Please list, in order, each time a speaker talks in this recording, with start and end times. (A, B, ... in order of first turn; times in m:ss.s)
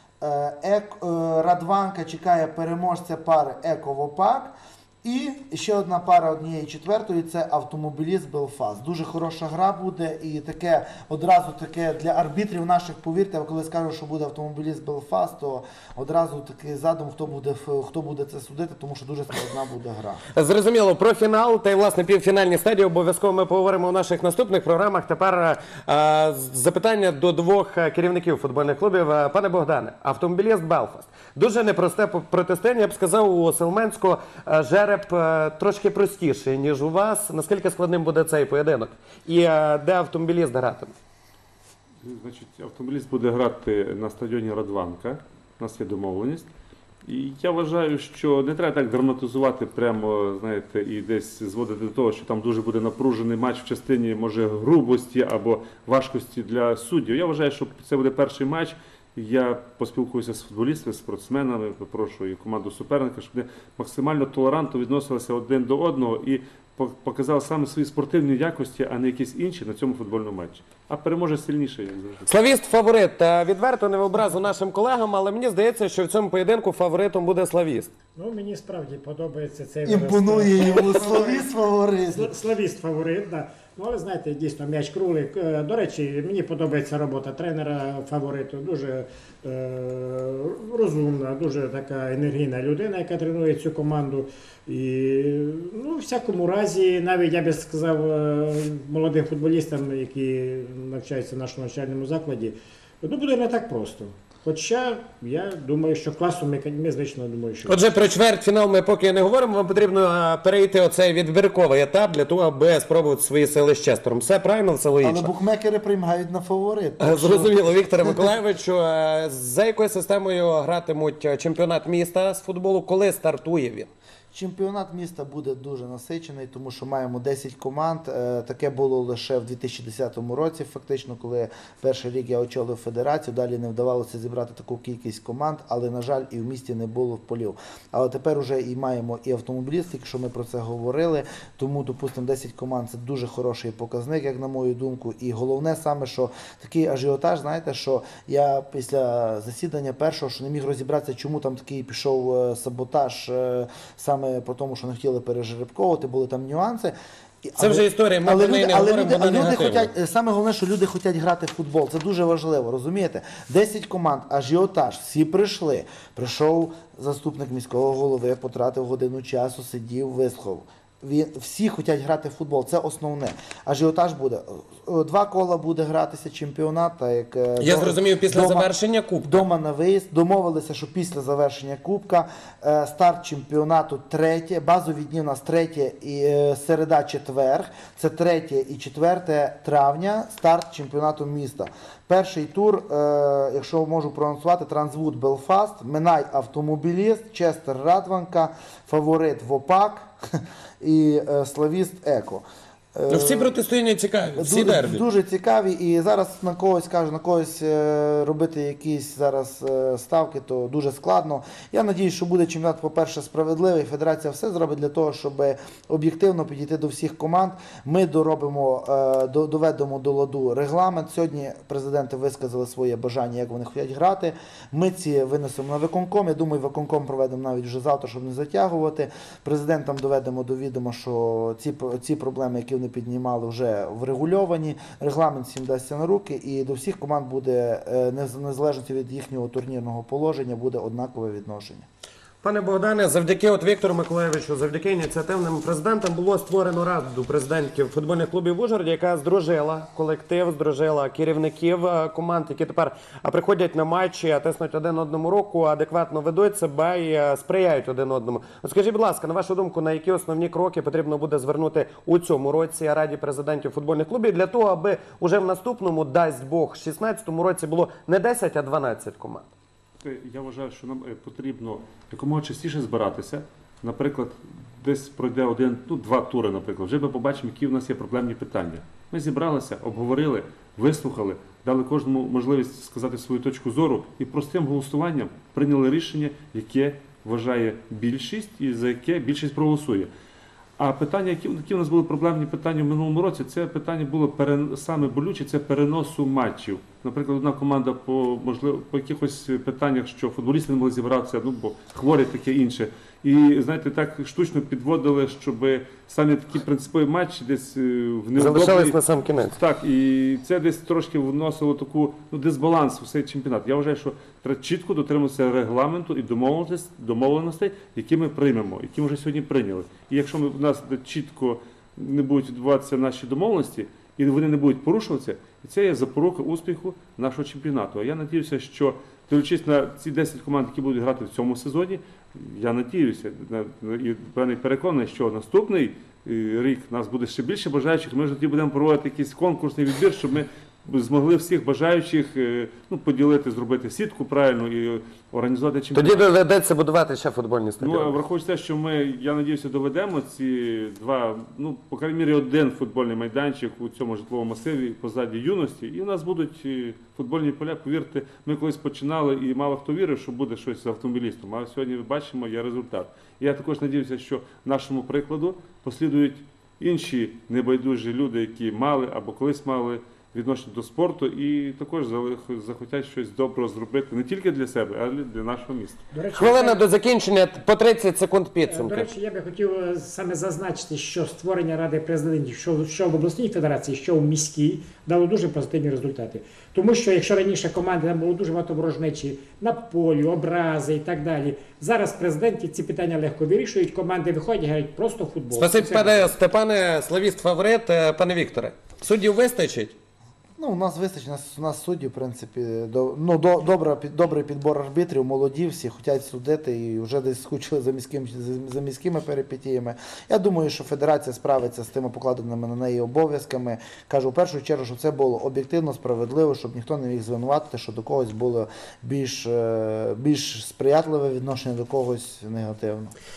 0:00.2-0:20.2 A
0:20.3-0:40.9 B
0:42.0-0:46.5 C
0:47.0-1:12.3 C
1:12.2-1:17.9 B
1:18.2-1:21.5 D
1:19.8-1:22.3 A
1:22.1-1:47.8 D
1:47.7-1:55.3 B
1:55.0-1:58.3 A
1:57.0-2:03.9 B
2:04.3-2:58.7 A
2:37.6-2:39.9 B
2:57.6-2:59.4 B
2:59.2-3:22.4 A
3:22.9-3:23.6 A
3:23.1-3:25.0 B
3:24.4-4:01.8 A
4:02.4-4:29.5 B
4:30.0-4:50.1 C
4:50.8-5:09.0 C
5:08.4-5:09.5 B
5:09.5-5:46.2 C
5:45.9-5:48.1 B
5:47.8-6:16.0 C
6:16.1-6:16.8 D
6:16.3-6:19.1 B
6:18.6-6:36.3 D
6:35.5-6:40.0 B
6:40.6-7:03.1 A